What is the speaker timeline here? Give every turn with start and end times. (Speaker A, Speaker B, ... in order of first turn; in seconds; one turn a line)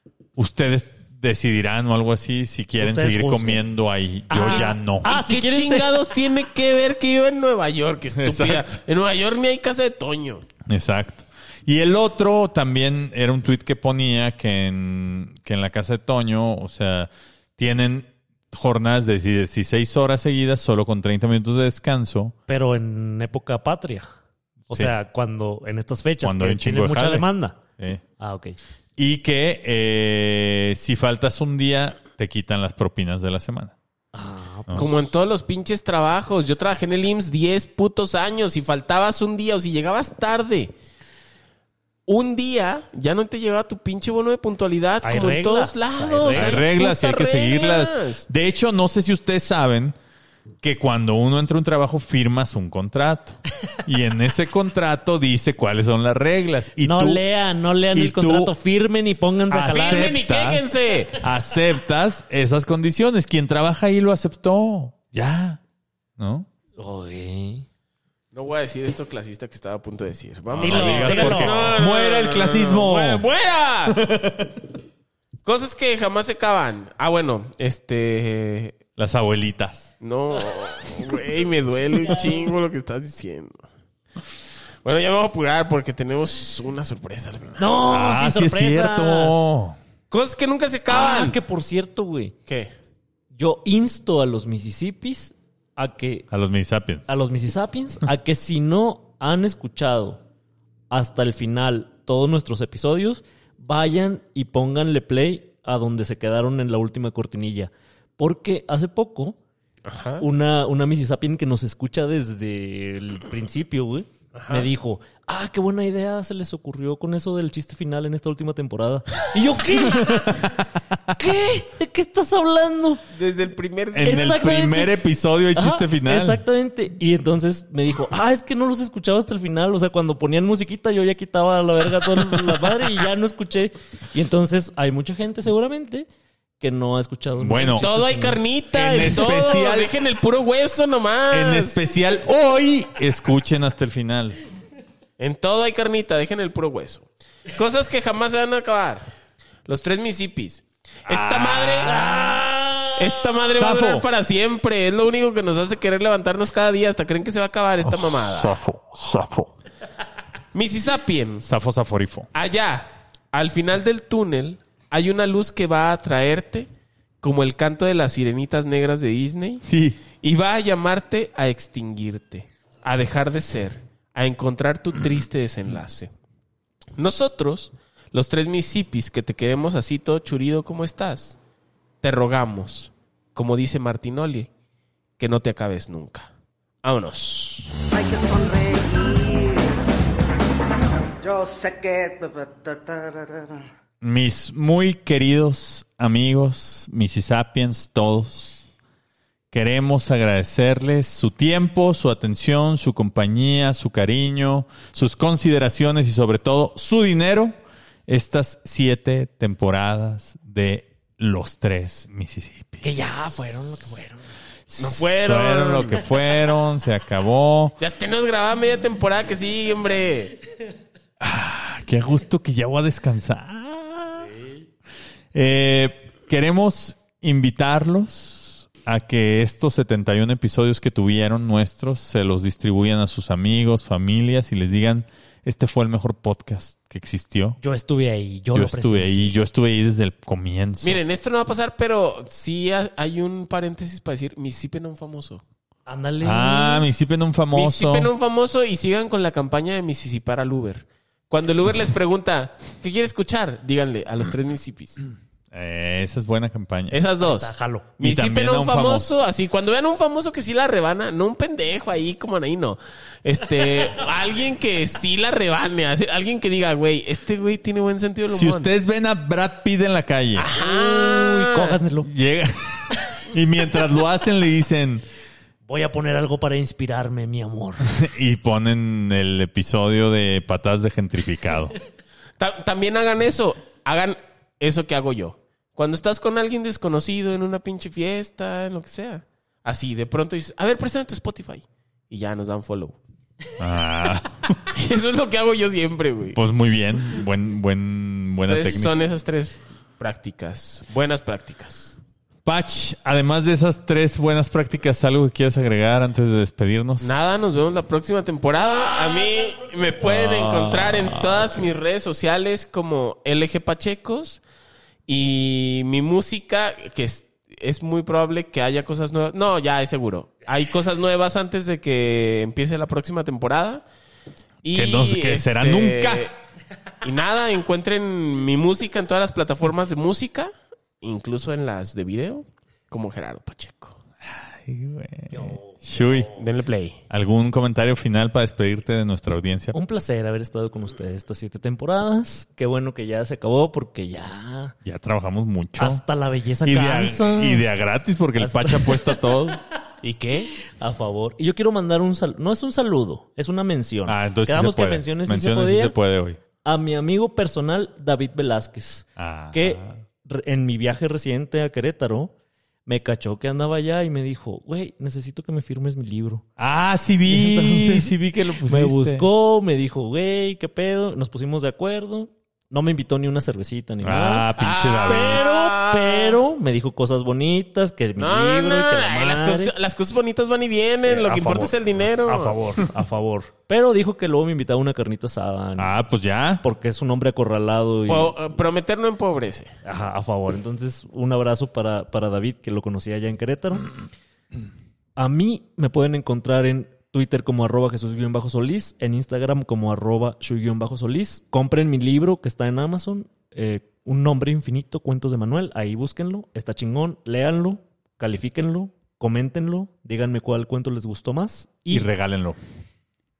Speaker A: 0.4-5.1
Speaker B: 2.8-3.6
Speaker B: 4.3-6.0
Speaker C: 4.3-10.4
Speaker A: 8.2-8.8
Speaker A: 10.7-22.3
Speaker B: 22.5-24.1
Speaker A: 24.7-24.9
Speaker B: 24.7-27.6
Speaker A: 26.2-28.0
Speaker B: 28.2-28.6
Speaker A: 29.0-33.8
Speaker B: 34.1-35.0
Speaker C: 34.8-40.7
Speaker C: 42.1-48.2
Speaker B: 45.0-46.6
Speaker A: 46.3-50.0
Speaker A: 50.6-57.2
Speaker B: 56.8-60.1
Speaker A: 57.9-58.5
Speaker A: 59.5-60.6
Speaker C: 59.6-61.2
Speaker A: 61.2-65.6
Speaker A: 66.2-66.5
Speaker B: 66.8-67.7
Speaker C: 68.3-74.0
Speaker A: 70.5-73.2
Speaker B: 70.6-71.7
Speaker A: 73.9-74.6
Speaker C: 75.5-78.8
Speaker A: 79.0-79.9
Speaker C: 80.0-83.6
Speaker C: 84.8-87.7
Speaker B: 87.6-89.5
Speaker A: 87.9-89.8
Speaker C: 90.1-91.4
Speaker B: 90.9-92.3
Speaker B: 93.3-96.3
Speaker A: 96.3-97.1
Speaker B: 97.1-100.2
Speaker B: 100.9-109.4
Speaker C: 109.8-110.2
Speaker B: 110.2-120.5
Speaker C: 114.3-114.7
Speaker A: 120.0-120.7
Speaker B: 121.2-123.0
Speaker C: 123.1-124.5
Speaker A: 123.9-126.4
Speaker B: 124.0-125.0
Speaker B: 125.5-136.1
Speaker B: 136.6-138.4
Speaker A: 137.4-137.9
Speaker C: 137.8-141.8
Speaker A: 138.7-139.9
Speaker A: 141.3-144.4
Speaker C: 145.2-149.1
Speaker C: 149.7-151.9
Speaker A: 151.1-152.4
Speaker B: 151.8-153.0
Speaker C: 153.0-158.6
Speaker A: 153.5-154.1
Speaker A: 157.8-159.5
Speaker C: 160.5-161.5
Speaker A: 161.4-162.3
Speaker C: 162.3-166.7
Speaker C: 167.2-169.6
Speaker A: 169.7-170.0
Speaker C: 170.2-176.1
Speaker C: 177.0-181.4
Speaker C: 182.0-184.5
Speaker C: 185.2-186.3
Speaker C: 186.8-187.7
Speaker D: 187.9-189.8
Speaker D: 191.2-193.6
Speaker A: 194.0-198.7
Speaker A: 199.5-212.8
Speaker B: 212.8-214.3
Speaker A: 214.7-217.8
Speaker C: 214.8-216.0
Speaker C: 217.8-220.3
Speaker A: 221.2-224.3
Speaker A: 225.3-237.6
Speaker B: 237.6-239.4
Speaker A: 238.5-241.0
Speaker C: 240.8-245.4
Speaker B: 245.9-246.9
Speaker A: 246.2-248.1
Speaker C: 247.5-255.0
Speaker A: 255.5-257.0
Speaker C: 256.9-268.7
Speaker B: 257.2-257.9
Speaker A: 258.0-259.1
Speaker A: 268.3-270.5
Speaker C: 270.4-271.8
Speaker B: 270.5-272.1
Speaker A: 272.0-275.0
Speaker B: 275.7-277.9
Speaker A: 277.9-281.8
Speaker C: 282.4-293.0
Speaker A: 293.6-294.7
Speaker C: 294.7-296.4
Speaker A: 296.3-299.0
Speaker C: 298.5-302.0
Speaker A: 302.4-307.4
Speaker C: 307.0-314.4
Speaker A: 310.0-311.7
Speaker C: 315.1-323.9
Speaker C: 324.6-326.4
Speaker A: 324.7-326.3
Speaker C: 327.0-334.0
Speaker A: 334.2-336.3
Speaker B: 335.3-336.4
Speaker C: 336.4-337.0
Speaker A: 337.1-339.8
Speaker B: 339.7-344.8
Speaker A: 344.8-346.0
Speaker B: 345.8-347.6
Speaker A: 346.6-349.6
Speaker B: 348.4-349.1
Speaker C: 350.0-350.5
Speaker B: 350.7-355.9
Speaker A: 354.1-356.4
Speaker B: 356.6-362.3
Speaker A: 359.2-360.0
Speaker B: 362.9-366.4
Speaker A: 366.6-369.3
Speaker B: 367.3-368.1
Speaker B: 368.6-374.5
Speaker A: 374.0-375.5
Speaker C: 374.6-376.4
Speaker B: 375.1-379.7
Speaker C: 378.2-382.6
Speaker B: 381.1-386.0
Speaker A: 385.8-386.6
Speaker B: 386.6-388.4
Speaker C: 388.1-389.7
Speaker B: 389.9-393.9
Speaker B: 395.2-412.1
Speaker A: 411.9-412.6